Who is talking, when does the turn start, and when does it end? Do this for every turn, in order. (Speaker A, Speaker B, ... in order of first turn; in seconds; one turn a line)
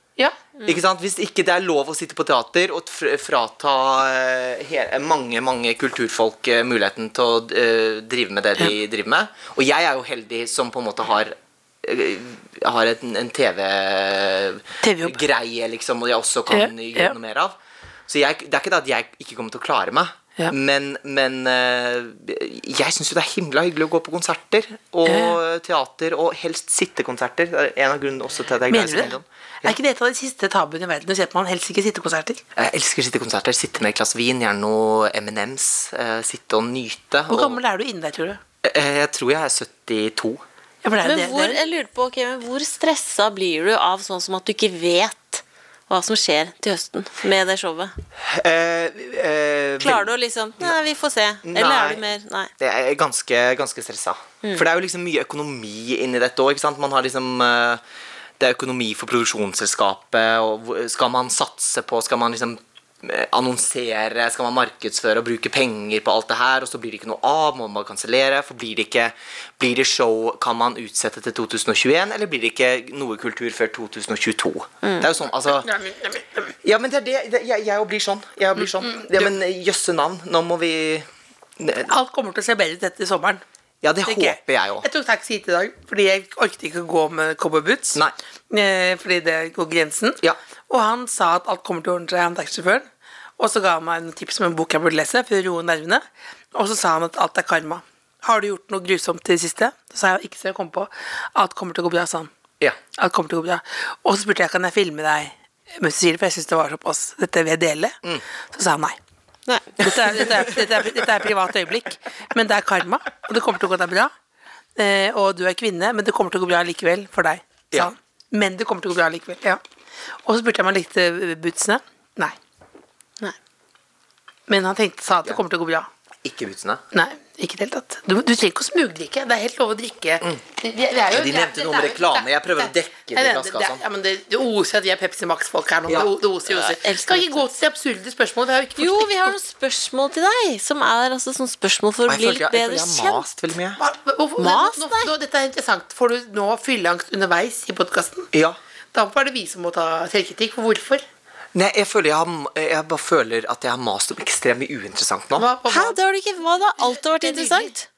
Speaker A: 0.6-29.8
Speaker B: 14.8-15.2
Speaker B: 16.5-17.1
Speaker B: 25.1-25.4
Speaker B: 28.7-32.4
Speaker A: 32.5-37.6
Speaker B: 37.3-38.4
Speaker A: 38.6-40.4
Speaker B: 40.8-41.6
Speaker C: 41.0-47.9
Speaker A: 48.2-50.1
Speaker C: 49.8-52.5
Speaker A: 51.4-52.1
Speaker A: 52.6-57.8
Speaker A: 58.4-75.7
Speaker C: 74.8-75.1
Speaker B: 75.6-76.5
Speaker A: 76.6-81.1
Speaker B: 78.8-79.2
Speaker A: 81.6-81.9
Speaker B: 81.9-83.4
Speaker A: 83.8-84.9
Speaker B: 84.0-92.9
Speaker B: 93.4-102.3
Speaker B: 103.0-108.0
Speaker B: 108.5-109.0
Speaker C: 109.5-109.8
Speaker B: 109.8-114.1
Speaker A: 110.1-110.4
Speaker B: 114.8-119.6
Speaker B: 120.2-122.4
Speaker B: 124.5-125.9
Speaker A: 126.2-126.8
Speaker B: 126.9-139.3
Speaker A: 131.1-133.8
Speaker A: 135.9-136.1
Speaker C: 136.5-137.5
Speaker C: 138.8-143.2
Speaker A: 142.1-143.8
Speaker B: 143.8-148.3
Speaker C: 144.4-145.1
Speaker A: 148.3-148.6
Speaker B: 148.9-151.0
Speaker A: 151.5-155.5
Speaker B: 155.4-156.0
Speaker C: 155.7-157.9
Speaker B: 156.8-157.7